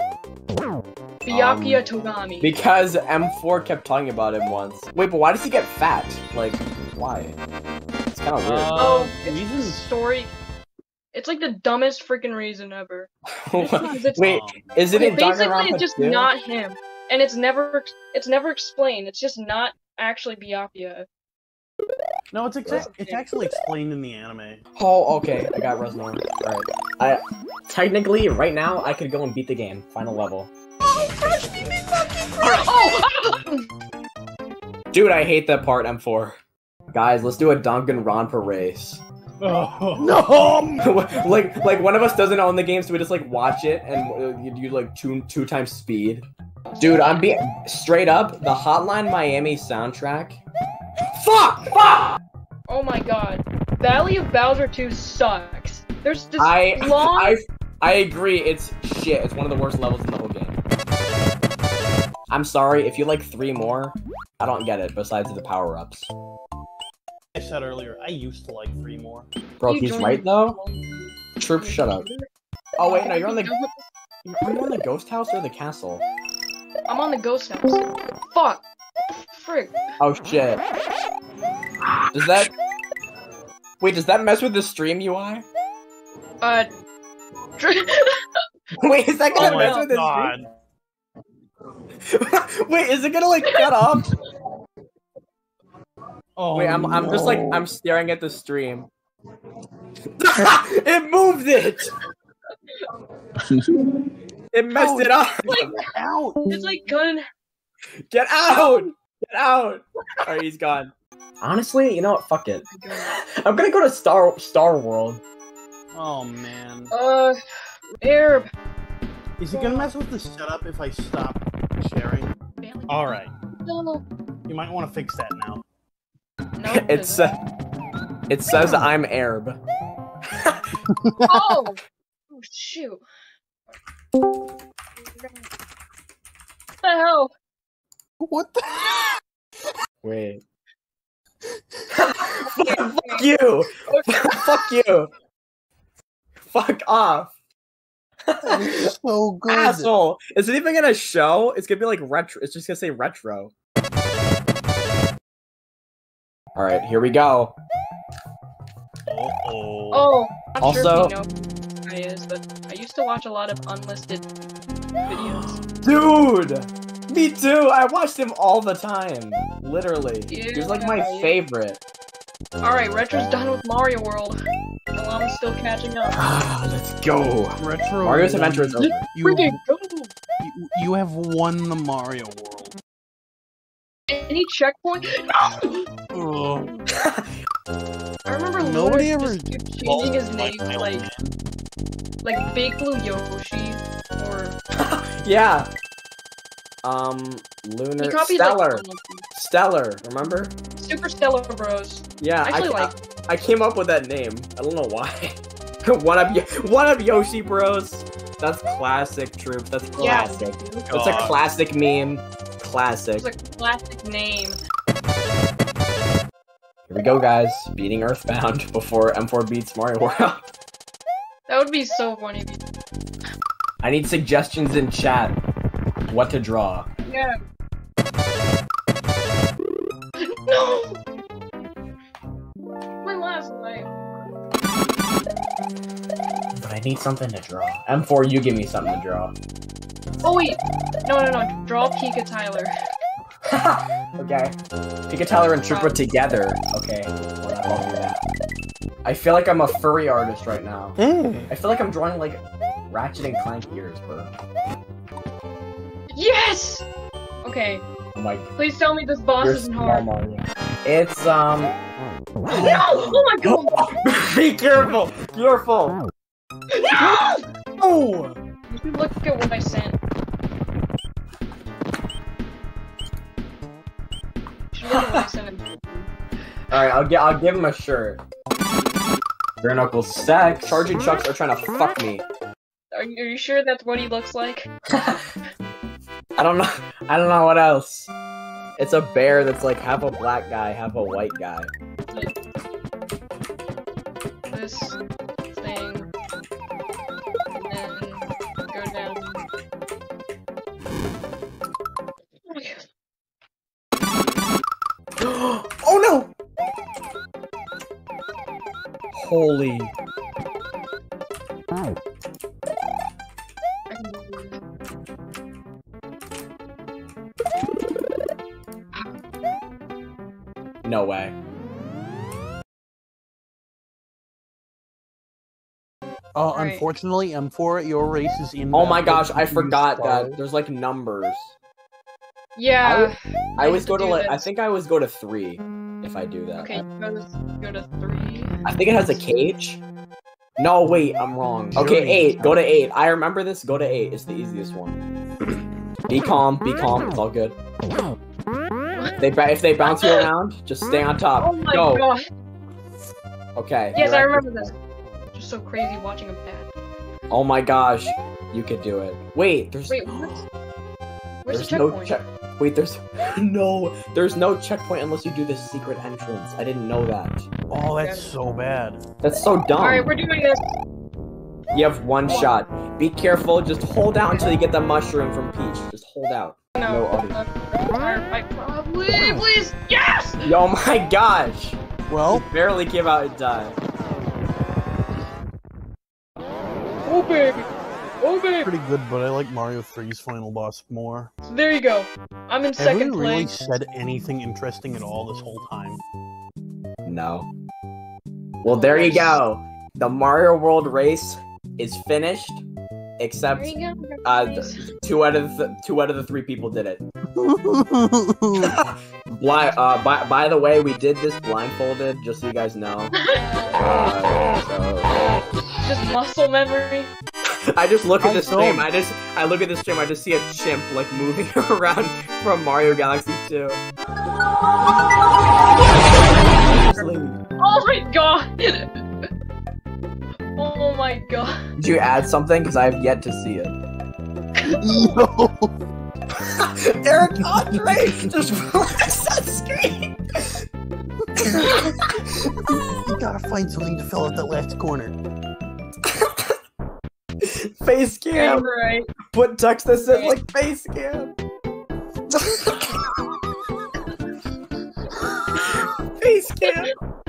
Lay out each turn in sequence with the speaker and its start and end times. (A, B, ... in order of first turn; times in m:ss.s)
0:01.2-0:02.5 A
0:01.3-0:01.8 B
0:02.4-0:07.4 B
0:08.1-0:08.8 B
0:08.4-0:09.9 C
0:08.8-0:10.3 A
0:11.1-0:14.4 A
0:13.3-0:16.3 B
0:14.2-0:14.8 C
0:14.9-0:21.1 A
0:22.3-0:24.6 C
0:22.6-0:22.9 B
0:22.7-0:23.2 A
0:24.8-0:30.5 B
0:31.0-0:31.4 A
0:32.4-0:33.7 A
0:34.9-0:36.4 B
0:36.9-0:39.0 B
0:39.4-0:40.7 C
0:40.8-0:46.3 B
0:46.7-0:47.1 A
0:46.8-0:50.4 B
0:51.1-0:52.0 B
0:52.7-0:57.4 A
0:56.4-1:00.6 B
1:02.3-1:06.1 B
1:07.3-1:09.3 C
1:09.6-1:10.6 B
1:09.7-1:12.3 A
1:11.4-1:12.1 B
1:12.8-1:13.5 B
1:12.8-1:13.9 A
1:14.2-1:16.0 B
1:16.9-1:19.8 A
1:20.0-1:20.6 B
1:22.1-1:22.5 B
1:23.8-1:25.4 B
1:26.4-1:26.7 A
1:27.6-1:28.2 A
1:28.8-1:30.3 B
1:29.3-1:30.5 C
1:29.4-1:29.9 A
1:32.1-1:34.1 B
1:36.4-1:37.6 C
1:36.5-1:38.9 B
1:40.2-1:41.9 B
1:44.5-1:45.7 B
1:44.8-1:46.5 C
1:45.5-1:45.8 A
1:46.5-1:47.2 A
1:48.1-1:55.2 B
1:48.5-1:48.9 A
1:52.7-1:53.2 A
1:55.9-1:56.9 C
1:56.9-1:57.4 A
1:58.0-1:58.5 A
1:59.4-2:02.3 C
1:59.5-1:59.9 A
2:02.6-2:04.0 A
2:02.9-2:03.3 C
2:04.5-2:05.6 C
2:06.6-2:07.2 A
2:06.7-2:07.4 B
2:08.3-2:09.6 B
2:10.3-2:10.6 B
2:10.9-2:11.7 C
2:11.3-2:11.8 A
2:12.3-2:13.0 A
2:15.1-2:15.4 A
2:16.8-2:17.3 A
2:18.2-2:19.2 C
2:20.0-2:20.4 B
2:21.9-2:25.1 B
2:22.6-2:24.5 A
2:26.4-2:27.3 B
2:28.3-2:28.9 B
2:28.4-2:29.9 C
2:29.5-2:33.5 B
2:36.6-2:37.6 B
2:39.1-2:40.1 C
2:39.9-2:44.3 A
2:40.6-2:41.2 B
2:45.1-2:45.6 A
2:45.4-2:51.8 B
2:50.3-2:51.4 A
2:52.6-2:54.4 A
2:55.0-2:56.2 A
2:56.1-2:59.0 B
2:57.6-2:59.6 C
2:58.8-3:00.1 A
3:00.4-3:02.8 C
3:04.1-3:05.9 A
3:06.1-3:06.8 C
3:06.9-3:07.3 B
3:08.3-3:11.1 A
3:08.6-3:11.4 C
3:12.2-3:14.6 A
3:14.8-3:15.7 B
3:16.8-3:20.5 B
3:18.0-3:19.2 A
3:20.8-3:22.9 A
3:22.2-3:33.3 B
3:30.0-3:30.9 A
3:30.9-3:31.4 C
3:33.2-3:34.6 A
3:36.9-3:40.5 B
3:41.5-3:42.6 A
3:43.8-3:45.4 B
3:46.1-3:46.9 B
3:47.1-3:47.3 A
3:50.2-3:51.0 A
3:53.0-3:53.9 A
3:56.6-3:59.3 B
4:00.2-4:02.7 A
4:03.4-4:04.6 B
4:05.1-4:08.2 B
4:05.3-4:06.2 A
4:09.0-4:14.3 B
4:11.0-4:11.5 C
4:16.1-4:16.8 A
4:17.4-4:17.8 A
4:18.2-4:18.5 B
4:18.6-4:20.1 A
4:19.4-4:21.8 B
4:22.5-4:23.7 A
4:22.5-4:26.0 B
4:26.7-4:27.4 A
4:27.0-4:28.4 B
4:28.7-4:30.0 A
4:34.7-4:36.1 A
4:34.9-4:35.3 B
4:36.7-4:38.2 B
4:39.6-4:42.2 B
4:42.9-4:44.7 A
4:44.9-4:45.2 B
4:46.4-4:48.1 B
4:48.8-4:51.7 B
4:54.5-4:55.0 A
4:55.5-4:56.1 A
4:57.6-4:59.4 A
5:02.5-5:02.9 A
5:05.2-5:06.3 B
5:09.1-5:09.9 B
5:13.9-5:14.6 A
5:20.8-5:21.3 B
5:26.4-5:30.4 C
5:26.5-5:26.9 A
5:28.7-5:31.6 B
5:32.6-5:34.4 A
5:32.8-5:36.8 B
5:36.6-5:39.2 A
5:38.6-5:39.8 B
5:40.6-5:45.0 B
5:41.8-5:42.6 C
5:46.1-5:47.6 B
5:49.2-5:52.0 B
5:49.8-5:50.2 A
5:51.4-5:52.2 A
5:53.6-5:54.7 B
5:54.0-5:54.8 A
5:55.3-5:56.7 A
5:57.3-6:00.5 B
5:59.9-6:00.4 A
6:01.4-6:02.2 A
6:01.5-6:07.5 B
6:07.7-6:09.0 C
6:08.0-6:08.3 A
6:09.2-6:10.1 B
6:09.8-6:10.7 A
6:11.7-6:17.4 B
6:12.3-6:12.5 A
6:16.8-6:20.4 A
6:20.4-6:23.8 B
6:22.1-6:22.5 C
6:27.0-6:27.7 A
6:28.2-6:28.7 A
6:28.6-6:31.3 C
6:31.5-6:33.5 A
6:32.8-6:36.0 C
6:37.0-6:37.5 B
6:38.6-6:42.6 B
6:38.6-6:39.4 A
6:43.2-6:47.0 B
6:43.6-6:44.8 A
6:47.3-6:48.7 C
6:48.6-6:53.2 B
6:53.2-6:53.8 A
6:53.7-6:55.1 B
6:55.8-6:57.1 A
6:57.8-7:03.8 B
6:58.2-6:58.9 C
7:05.8-7:07.4 B
7:06.7-7:09.3 A
7:10.6-7:11.6 A
7:11.8-7:13.8 B
7:14.6-7:15.1 A
7:14.6-7:15.7 C
7:16.4-7:20.6 B
7:17.5-7:18.3 C
7:21.4-7:22.5 B
7:21.4-7:21.8 C
7:22.7-7:25.2 C
7:26.0-7:26.5 B
7:27.4-7:28.7 B
7:28.3-7:29.1 A
7:29.3-7:31.3 B
7:30.0-7:30.4 A
7:32.3-7:33.0 B
7:35.6-7:36.9 B